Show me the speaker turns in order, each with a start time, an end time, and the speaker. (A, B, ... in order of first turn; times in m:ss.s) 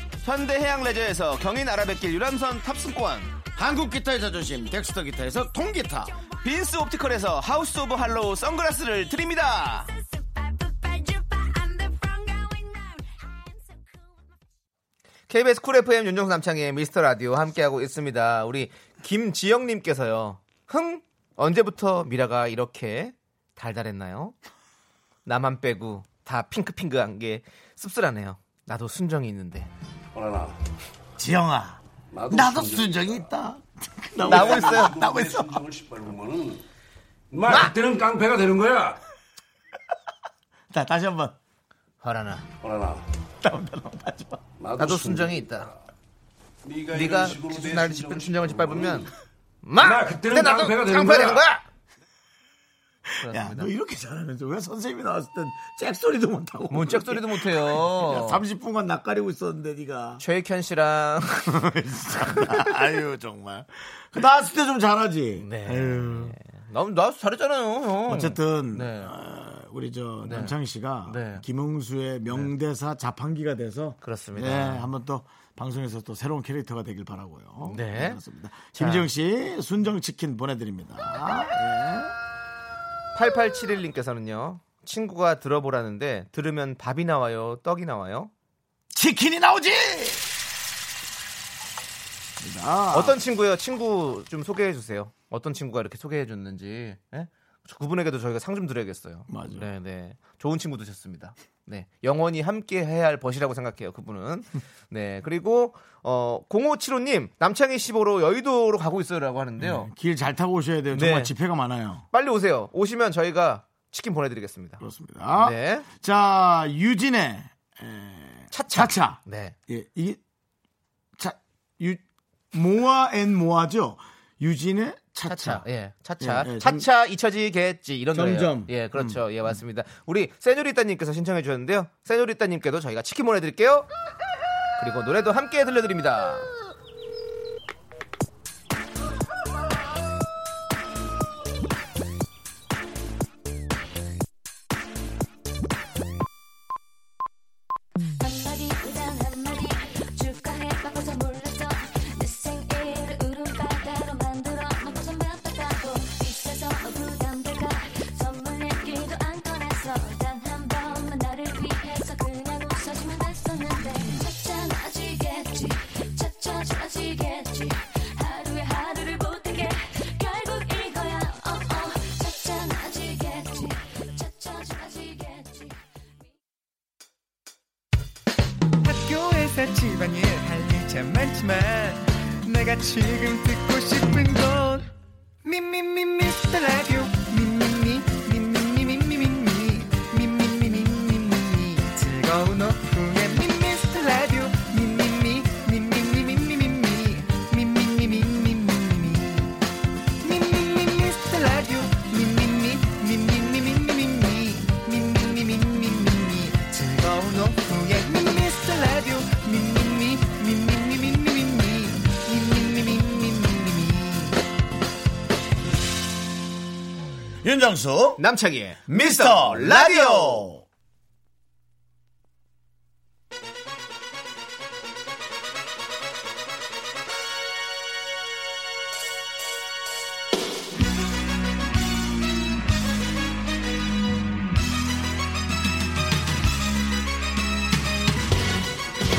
0:00.2-0:03.4 A
0:03.6-0:06.2 B
0:06.4-0:09.9 A
0:15.3-0:24.4 A
0:25.3-0:29.7 A
0:30.1-0:30.5 C
0:31.2-0:35.6 B
0:32.1-0:33.2 C
0:34.2-0:36.6 C
0:34.3-0:35.0 A
0:37.3-0:39.0 C
0:37.5-0:37.7 A
0:40.7-0:41.4 B
0:42.0-0:42.5 A
0:42.6-0:43.0 C
0:43.4-0:44.4 B
0:44.6-0:45.7 C
0:44.8-0:45.7 A
0:46.7-0:49.1 C
0:46.9-0:49.1 A
0:49.6-0:51.6 A
0:49.8-0:51.5 C
0:53.1-1:00.2 B
0:53.2-0:53.7 A
0:56.7-0:58.4 A
1:00.2-1:01.7 A
1:01.5-1:06.4 B
1:02.2-1:02.7 A
1:05.4-1:09.1 A
1:08.1-1:22.2 B
1:10.2-1:10.6 A
1:11.1-1:11.4 A
1:14.0-1:14.9 A
1:17.6-1:18.2 A
1:18.8-1:19.1 A
1:23.2-1:28.3 A
1:28.9-1:30.3 B
1:32.4-1:33.2 B
1:32.9-1:49.9 A
1:39.3-1:39.7 B
1:49.6-1:52.0 B
1:50.9-1:51.3 A
1:52.1-1:55.9 A
1:54.8-2:00.2 B
1:58.5-1:59.6 A
2:01.2-2:05.6 B
2:05.3-2:13.9 A
2:06.2-2:06.9 B
2:08.1-2:09.6 B
2:14.8-2:16.5 A
2:28.2-2:55.8 D
2:58.8-3:04.9 E
3:05.4-3:19.6 E
3:20.2-3:34.4 E
3:37.4-3:38.2 B
3:38.2-3:40.5 A
3:38.9-3:40.6 B